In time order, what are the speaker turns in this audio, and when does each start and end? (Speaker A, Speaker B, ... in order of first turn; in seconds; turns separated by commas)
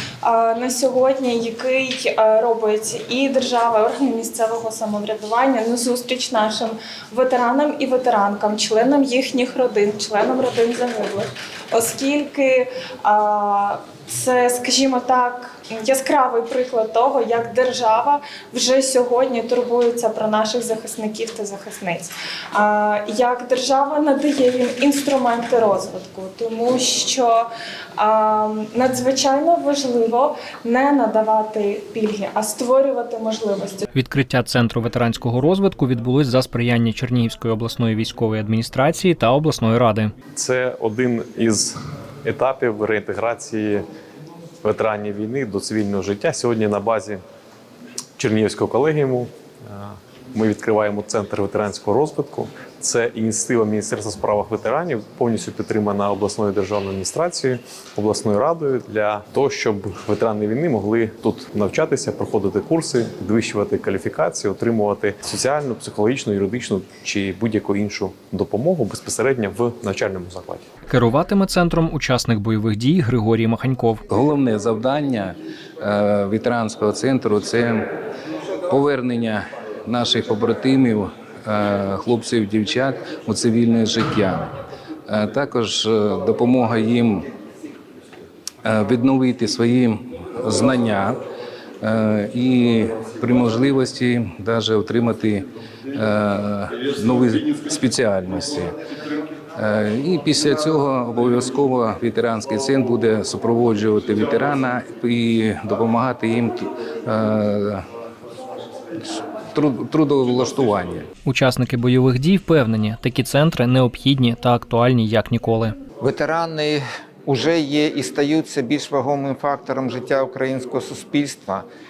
Speaker A: 0.2-33.9, Speaker B: 33.9-40.1, Speaker C: 40.4-43.8, Speaker C: 44.6-47.2, Speaker C: 48.2-70.6, Speaker B: 70.9-74.0, Speaker D: 74.1-77.9, Speaker D: 78.7-84.5, Speaker D: 85.1-87.3, Speaker D: 88.6-91.2, Speaker D: 91.8-98.7, Speaker D: 99.6-107.8, Speaker D: 109.0-111.1, Speaker B: 111.2-115.8, Speaker E: 116.0-121.7